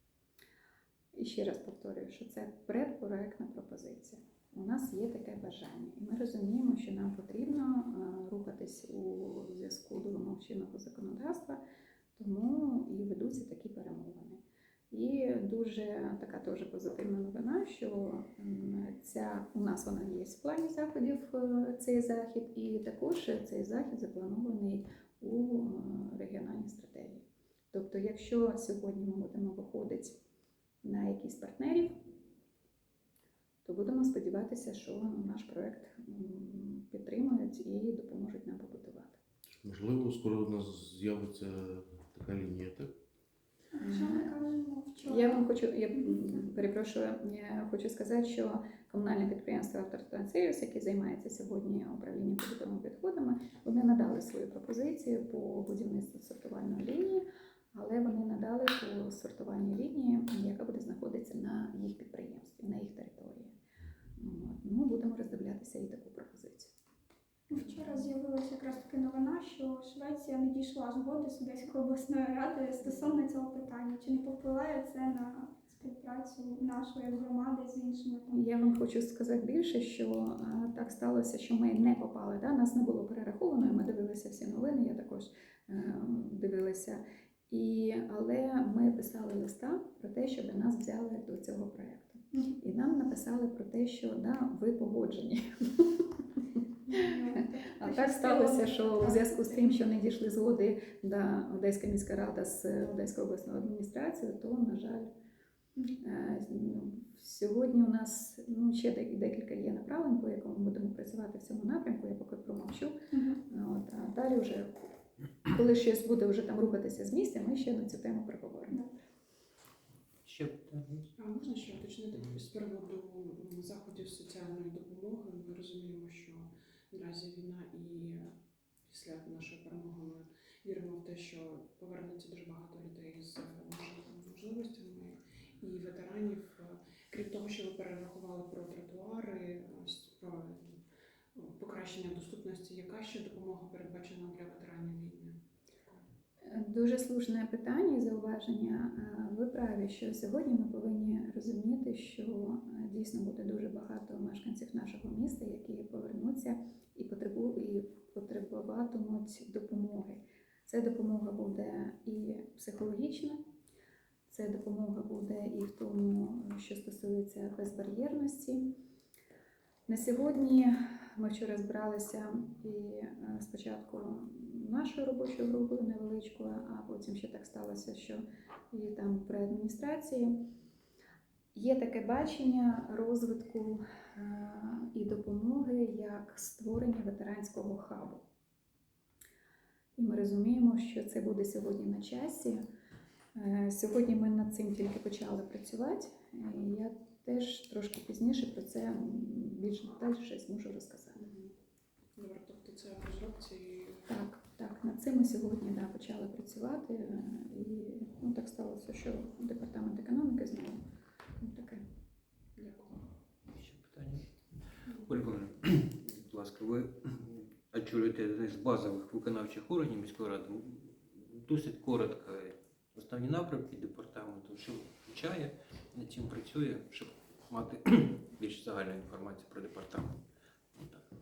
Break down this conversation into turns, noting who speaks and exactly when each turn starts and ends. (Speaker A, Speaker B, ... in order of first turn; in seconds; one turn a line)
Speaker A: 1.1-11.6
Speaker A: 12.2-14.4
Speaker A: 14.9-30.2
Speaker A: 30.8-32.0
Speaker A: 33.6-39.2
Speaker B: 39.5-42.9
Speaker A: 43.8-44.4
Speaker C: 43.8-46.2
Speaker A: 45.0-63.5
Speaker A: 64.2-66.7
Speaker C: 67.5-78.4
Speaker A: 78.3-96.1
Speaker C: 96.9-99.8
Speaker A: 96.9-105.1
Speaker A: 106.0-114.8
Speaker C: 113.1-113.4
Speaker A: 115.5-118.8
Speaker D: 120.2-121.1
Speaker E: 121.2-140.8
Speaker E: 141.3-146.1
Speaker A: 146.4-163.4
Speaker A: 164.3-168.8
Speaker A: 169.9-180.4
Speaker A: 181.5-188.2
Speaker A: 190.0-192.6
Speaker A: 193.3-201.3
Speaker E: 201.2-201.5
Speaker E: 202.2-204.1
Speaker A: 204.1-210.8
Speaker A: 211.4-211.8
Speaker E: 212.6-213.0
Speaker D: 213.5-230.2
Speaker D: 230.8-231.1